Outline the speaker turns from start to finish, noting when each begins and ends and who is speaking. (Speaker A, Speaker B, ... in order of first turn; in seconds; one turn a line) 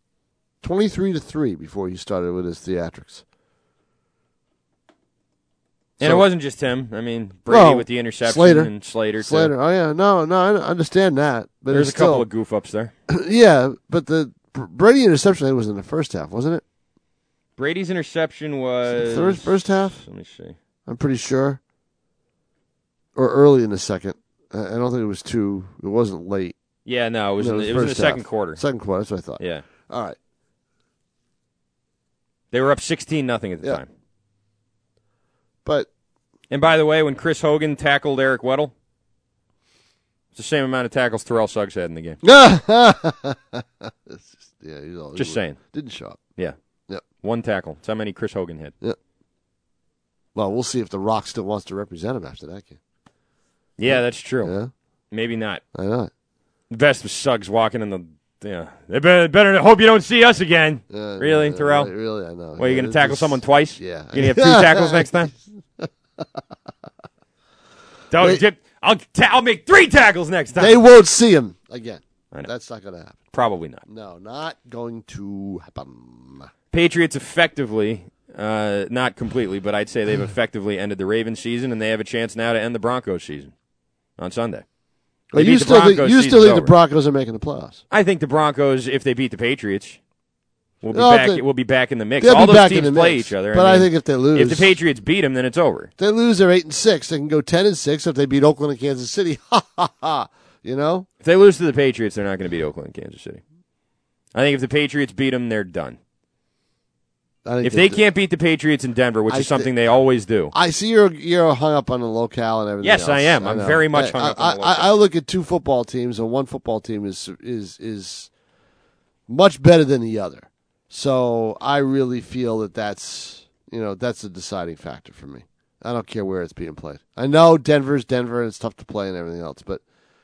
Speaker A: 0.6-3.2
Speaker A: 6.0-6.2
Speaker B: 6.0-9.5
Speaker A: 7.5-12.2
Speaker B: 11.7-12.9
Speaker A: 13.1-16.6
Speaker B: 17.6-20.6
Speaker A: 18.9-20.0
Speaker A: 20.9-21.6
Speaker A: 23.1-26.6
Speaker B: 26.9-28.6
Speaker A: 27.4-30.2
Speaker B: 29.4-29.6
Speaker B: 32.5-33.9
Speaker B: 36.5-38.7
Speaker B: 40.3-42.2
Speaker A: 42.2-46.2
Speaker B: 45.1-45.6
Speaker B: 47.2-48.7
Speaker A: 50.3-52.8
Speaker B: 53.8-54.5
Speaker A: 53.9-54.7
Speaker B: 55.1-55.6
Speaker A: 55.7-56.1
Speaker B: 56.7-61.9
Speaker A: 60.9-66.4
Speaker B: 62.6-65.3
Speaker B: 68.1-70.8
Speaker A: 68.2-68.4
Speaker A: 70.5-73.2
Speaker B: 73.3-73.8
Speaker A: 73.9-76.5
Speaker B: 76.7-83.5
Speaker B: 84.2-84.6
Speaker A: 85.3-87.8
Speaker B: 85.3-86.7
Speaker B: 87.9-90.0
Speaker B: 90.8-95.9
Speaker A: 90.9-91.4
Speaker A: 92.2-94.7
Speaker A: 96.0-101.1
Speaker B: 101.2-103.4
Speaker B: 104.3-106.0
Speaker A: 107.4-108.0
Speaker B: 107.6-110.5
Speaker A: 109.3-109.7
Speaker A: 110.5-118.3
Speaker B: 112.8-114.9
Speaker A: 119.3-129.8